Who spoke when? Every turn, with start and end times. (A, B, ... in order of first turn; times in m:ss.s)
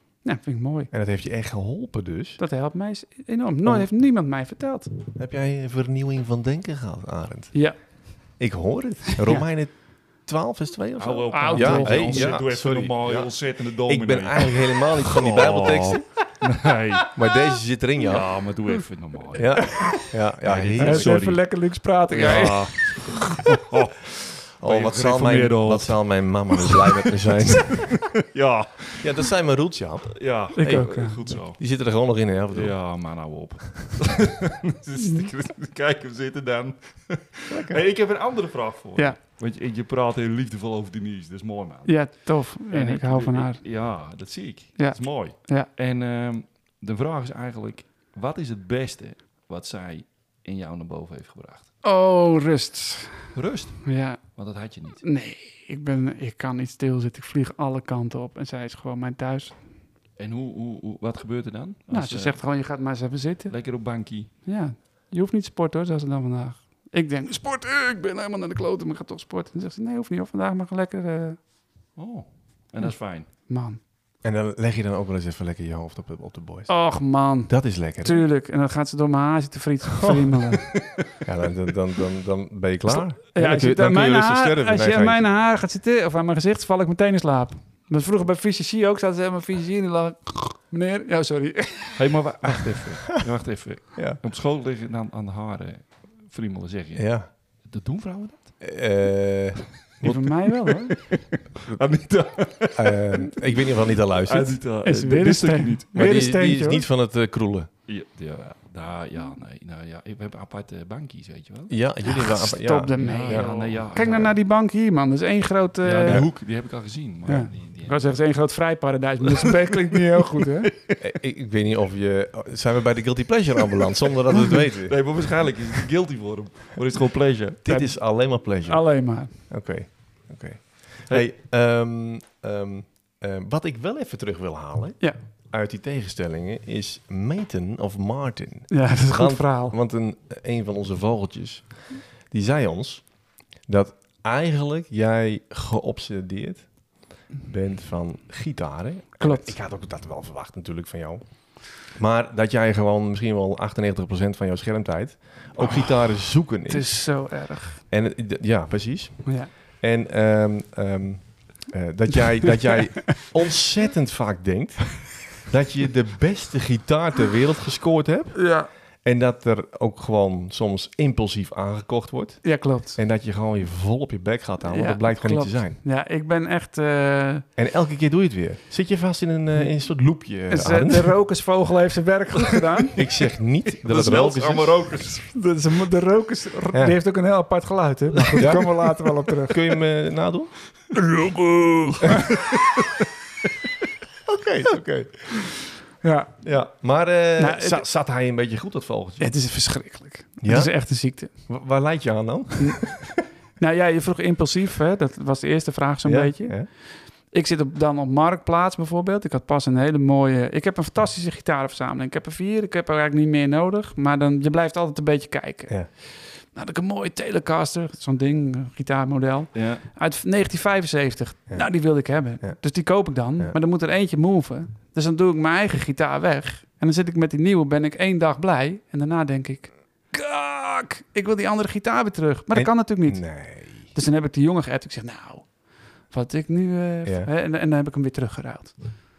0:00.2-0:00.9 A
0:00.9-0:02.4 B
0:02.4-0:04.9 A
0:05.1-0:07.6 B
0:08.3-0:16.0 B
0:09.2-0:09.4 A
0:11.0-0:17.1 C
0:11.3-0:12.4 A
0:17.1-0:18.3 B
0:18.0-0:29.1 C
0:19.3-0:21.2 B
0:19.6-0:20.1 A
0:20.8-0:23.4 A
0:24.6-0:28.2 B
0:29.0-0:32.8 B
0:30.2-0:31.6 C
0:30.5-0:31.2 A
0:32.5-0:51.7 C
0:37.5-0:37.8 B
0:41.8-0:43.6 A
0:44.8-0:45.7 A
0:51.8-0:53.3 A
0:53.3-0:55.0 C
0:53.8-0:54.2 A
0:55.0-0:59.6 A
1:00.2-1:02.4 C
1:01.9-1:03.6 A
1:03.5-1:04.3 C
1:04.4-1:11.4 A
1:12.0-1:13.3 C
1:12.8-1:13.8 A
1:14.2-1:18.2 B
1:16.7-1:20.7 A
1:20.0-1:20.2 B
1:21.2-1:25.3 B
1:22.9-1:32.2 A
1:32.0-1:38.6 C
1:36.9-1:37.3 B
1:38.6-1:40.5 B
1:40.0-1:41.2 A
1:41.6-1:46.1 C
1:42.7-1:44.6 B
1:44.8-1:46.8 A
1:45.9-1:47.7 B
1:47.9-1:51.8 C
1:51.7-1:54.2 B
1:52.0-1:56.5 A
1:53.0-1:54.3 C
1:55.8-1:58.1 C
1:57.2-2:00.7 A
2:01.0-2:05.2 B
2:04.5-2:07.6 C
2:07.6-2:37.1 B
2:07.7-2:09.4 A
2:18.7-2:19.7 A
2:29.2-2:29.6 A
2:36.6-2:37.8 A
2:37.9-2:55.8 B
2:39.2-2:39.5 A
2:48.3-2:48.7 A
2:52.4-2:53.0 A
2:54.7-2:57.4 A
2:57.6-3:01.2 B
3:00.5-3:03.0 A
3:02.9-3:04.8 B
3:03.8-3:05.3 C
3:05.2-3:09.7 A
3:08.3-3:08.9 B
3:09.5-3:10.6 B
3:11.0-3:12.3 A
3:11.8-3:12.2 C
3:14.2-3:15.5 B
3:16.0-3:16.4 A
3:16.4-3:19.4 B
3:17.4-3:17.8 A
3:19.2-3:21.3 A
3:20.4-3:23.1 B
3:22.6-3:59.0 A
3:26.0-3:26.7 B
3:39.5-3:39.8 C
3:41.5-3:42.6 B
3:52.5-3:53.9 B